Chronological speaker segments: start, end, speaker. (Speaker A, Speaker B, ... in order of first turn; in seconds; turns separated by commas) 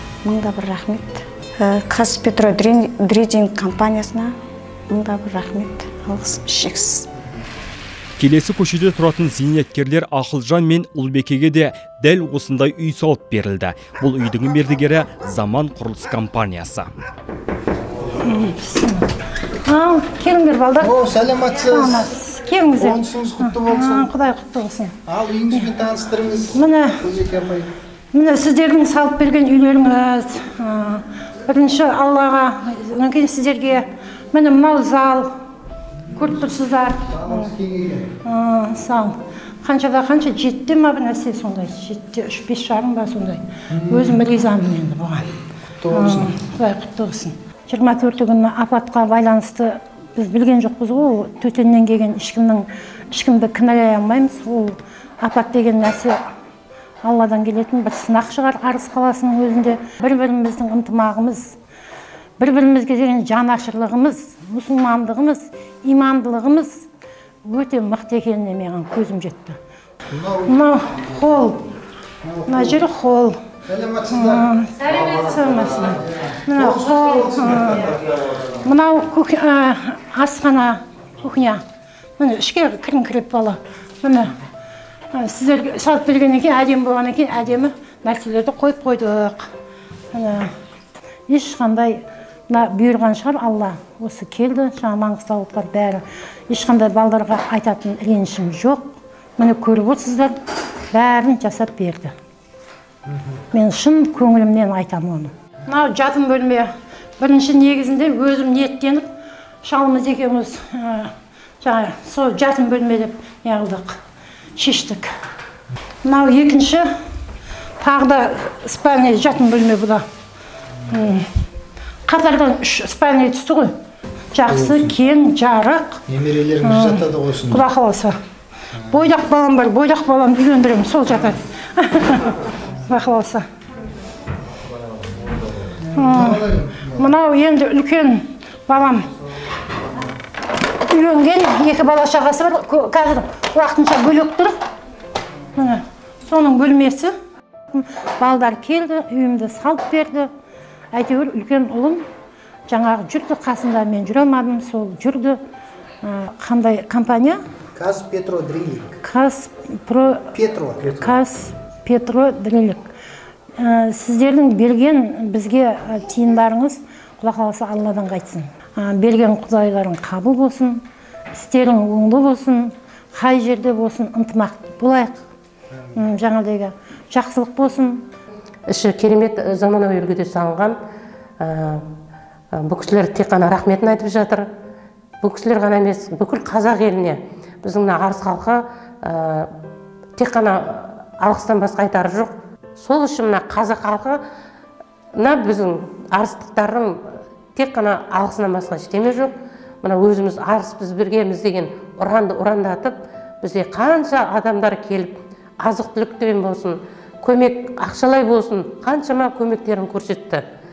Speaker A: 0.3-4.3, Speaker A: 4.9-7.1, Speaker B: 8.2-16.9, Speaker C: 18.2-19.1, Speaker C: 19.6-20.9, Speaker D: 20.9-22.1, Speaker C: 21.6-24.9, Speaker D: 22.8-24.1, Speaker D: 25.1-26.6, Speaker C: 26.5-27.1, Speaker D: 27.2-27.7, Speaker C: 28.1-35.3, Speaker C: 36.1-37.5, Speaker D: 37.2-38.1, Speaker C: 38.2-45.3, Speaker D: 43.8-44.2, Speaker D: 45.8-46.3, Speaker C: 45.9-56.2, Speaker C: 57.0-61.5, Speaker C: 62.4-66.9, Speaker C: 67.5-69.6, Speaker D: 70.1-70.6, Speaker C: 70.5-71.6, Speaker D: 72.3-72.8, Speaker C: 72.5-73.4, Speaker D: 73.7-74.4, Speaker C: 74.1-78.0, Speaker D: 75.2-75.9, Speaker D: 76.5-77.8, Speaker C: 78.6-81.6, Speaker C: 82.2-84.4, Speaker C: 85.1-89.5, Speaker C: 90.1-90.5, Speaker C: 91.3-100.3, Speaker C: 100.9-102.1, Speaker C: 103.5-109.1, Speaker C: 109.6-114.0, Speaker C: 114.6-115.1, Speaker C: 116.0-116.9, Speaker C: 117.8-120.0, Speaker C: 120.9-121.2, Speaker C: 122.1-123.7, Speaker C: 124.3-126.0, Speaker D: 124.6-124.9, Speaker D: 126.1-127.6, Speaker C: 126.6-128.2, Speaker C: 128.9-133.4, Speaker D: 135.9-137.1, Speaker C: 135.9-139.1, Speaker C: 140.9-144.6, Speaker C: 145.6-147.1, Speaker C: 147.7-150.3, Speaker C: 150.9-152.1, Speaker C: 152.7-155.4, Speaker C: 156.0-157.4, Speaker D: 157.8-159.0, Speaker C: 159.0-160.3, Speaker D: 160.4-161.1, Speaker C: 160.9-162.8, Speaker C: 163.6-170.8, Speaker C: 171.3-175.2, Speaker C: 175.9-178.0, Speaker E: 178.7-180.8, Speaker E: 181.4-181.8, Speaker E: 182.6-184.5, Speaker E: 185.2-189.5, Speaker E: 190.2-194.2, Speaker E: 195.2-210.4